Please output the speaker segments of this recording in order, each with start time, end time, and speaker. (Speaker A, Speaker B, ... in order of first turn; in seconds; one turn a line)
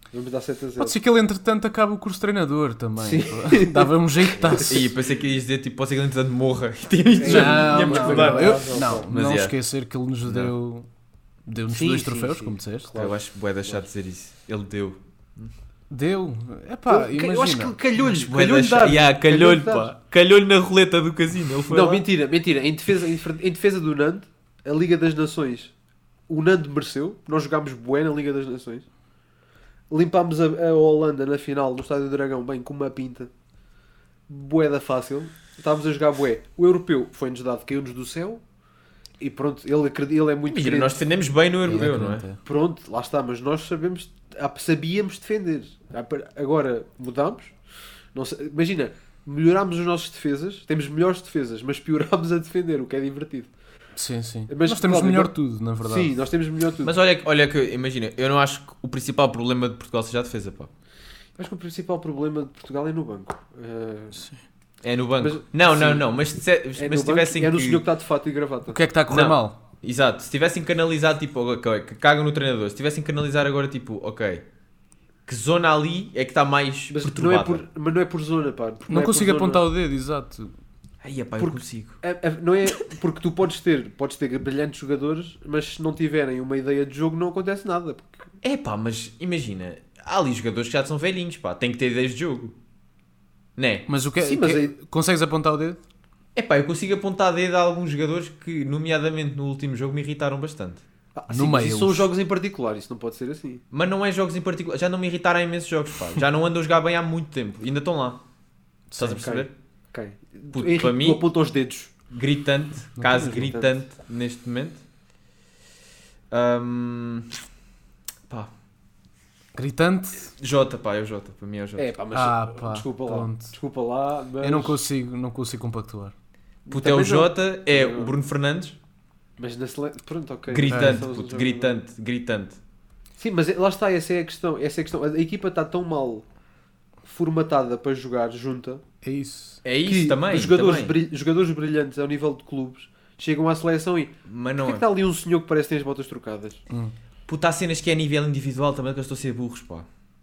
Speaker A: 0.1-0.9
Speaker B: 0.8-4.9
Speaker A: 3.0-4.8
Speaker C: 4.5-9.5
Speaker A: 7.2-9.1
Speaker B: 7.2-10.9
Speaker C: 10.2-10.5
Speaker B: 11.4-12.9
Speaker A: 11.7-13.8
Speaker C: 12.9-15.5
Speaker B: 15.9-17.7
Speaker A: 16.9-19.9
Speaker C: 18.0-22.0
Speaker A: 21.7-25.7
Speaker A: 26.3-28.9
Speaker A: 29.9-33.3
Speaker A: 34.3-38.4
Speaker A: 39.2-41.0
Speaker C: 40.5-42.2
Speaker B: 41.6-42.4
Speaker A: 42.4-47.5
Speaker A: 48.1-53.5
Speaker B: 54.0-56.1
Speaker A: 54.5-55.3
Speaker A: 55.8-56.9
Speaker C: 56.8-60.7
Speaker A: 61.4-64.2
Speaker B: 64.1-64.4
Speaker C: 64.8-67.8
Speaker A: 65.2-66.1
Speaker A: 66.8-68.8
Speaker B: 68.7-69.6
Speaker C: 69.1-74.4
Speaker C: 75.3-77.6
Speaker A: 76.9-79.6
Speaker B: 78.9-80.5
Speaker C: 81.0-82.0
Speaker A: 81.4-88.3
Speaker C: 88.4-92.5
Speaker C: 93.6-93.9
Speaker B: 93.9-95.8
Speaker A: 94.2-94.7
Speaker C: 96.3-100.8
Speaker A: 101.1-103.6
Speaker B: 101.3-102.1
Speaker C: 103.7-108.2
Speaker B: 108.9-109.2
Speaker C: 109.0-109.5
Speaker A: 109.2-111.9
Speaker C: 110.5-111.2
Speaker C: 112.1-114.8
Speaker B: 113.0-113.5
Speaker A: 113.4-113.7
Speaker C: 116.3-117.3
Speaker B: 119.5-120.3
Speaker C: 120.4-121.9
Speaker A: 121.8-124.8
Speaker B: 122.1-123.5
Speaker B: 124.4-126.1
Speaker A: 126.7-128.1
Speaker C: 126.7-128.8
Speaker A: 129.4-131.8
Speaker C: 130.5-132.6
Speaker B: 130.7-131.0
Speaker A: 133.2-136.2
Speaker A: 137.0-138.8
Speaker B: 139.0-139.6
Speaker C: 139.6-141.0
Speaker A: 139.8-146.6
Speaker C: 144.3-144.8
Speaker C: 147.3-149.9